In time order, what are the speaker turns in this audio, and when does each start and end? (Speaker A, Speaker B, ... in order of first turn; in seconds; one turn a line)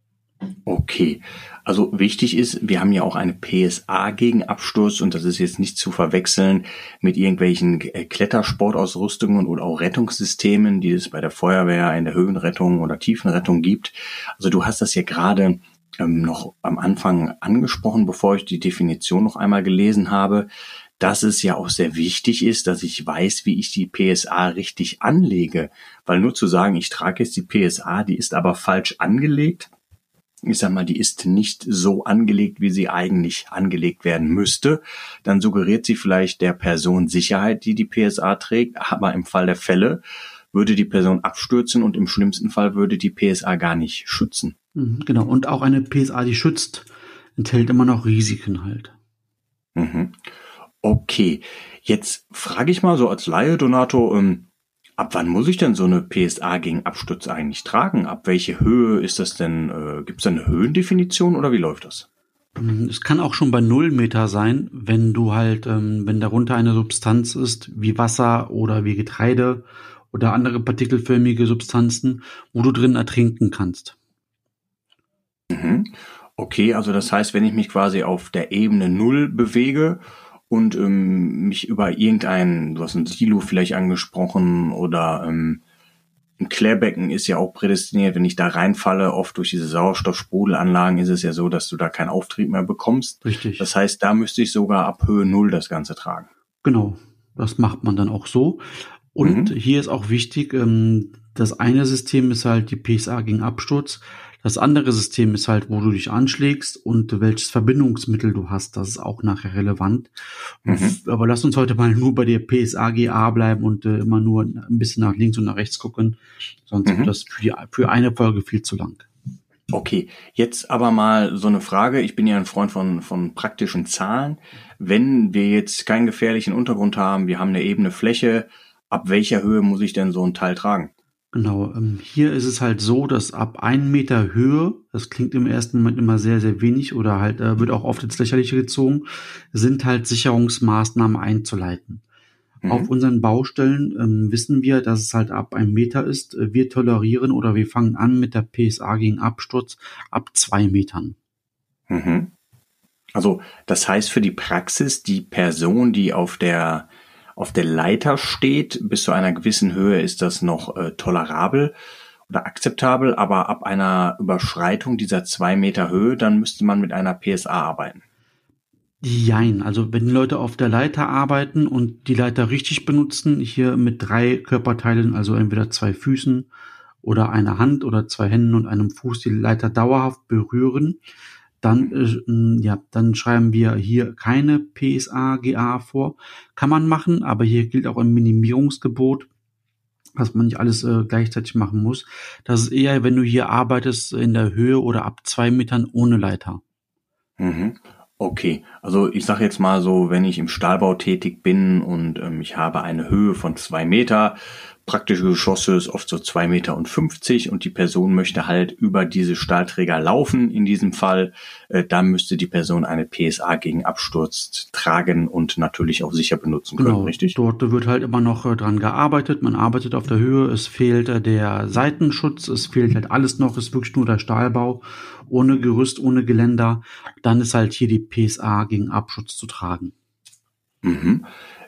Speaker A: 0.7-20.5
Speaker A: 21.0-29.7
Speaker A: 30.4-40.0
Speaker A: 40.5-44.5
Speaker B: 44.8-48.9
Speaker A: 49.8-50.2
Speaker A: 50.8-62.0
Speaker B: 62.5-74.0
Speaker A: 75.5-85.6
Speaker A: 86.4-96.3
Speaker B: 93.2-93.7
Speaker B: 96.6-119.1
Speaker A: 99.2-99.5
Speaker A: 110.7-111.0
Speaker A: 116.8-117.1
Speaker A: 119.7-130.9
Speaker B: 131.3-142.0
Speaker A: 142.6-142.9
Speaker B: 142.7-151.2
Speaker A: 151.9-152.3
Speaker A: 153.1-161.7
Speaker A: 162.3-168.0
Speaker B: 169.0-176.5
Speaker B: 177.0-181.0
Speaker B: 181.6-189.3
Speaker B: 190.2-196.6
Speaker A: 197.4-217.3
Speaker B: 216.8-229.9
Speaker A: 230.8-231.3